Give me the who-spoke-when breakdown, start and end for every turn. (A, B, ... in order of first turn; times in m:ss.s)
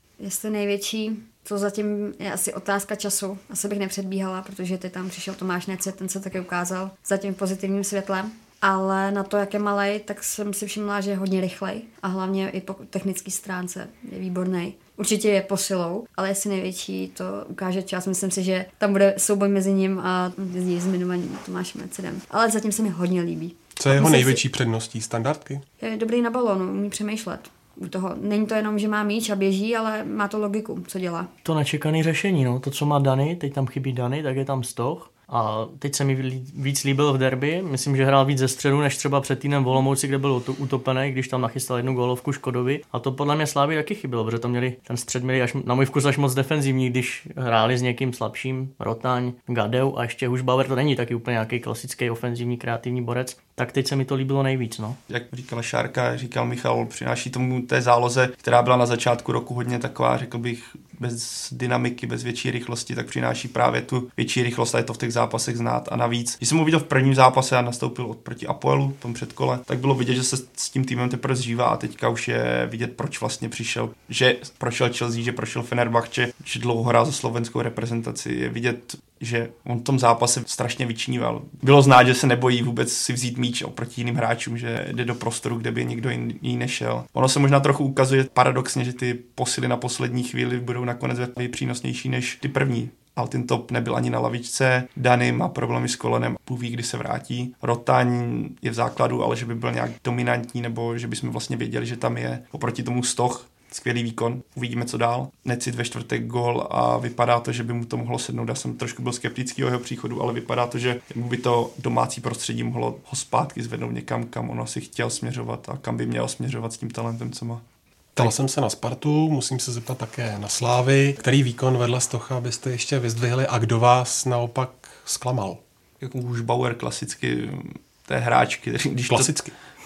0:00.2-0:24.4 A
0:23.8-0:25.6 B
0:25.8-0:31.3 A
0:31.4-0:55.0 C
0:55.1-1:57.6 D
1:58.2-2:05.6 B
2:06.0-2:09.4 D
2:09.1-2:09.5 B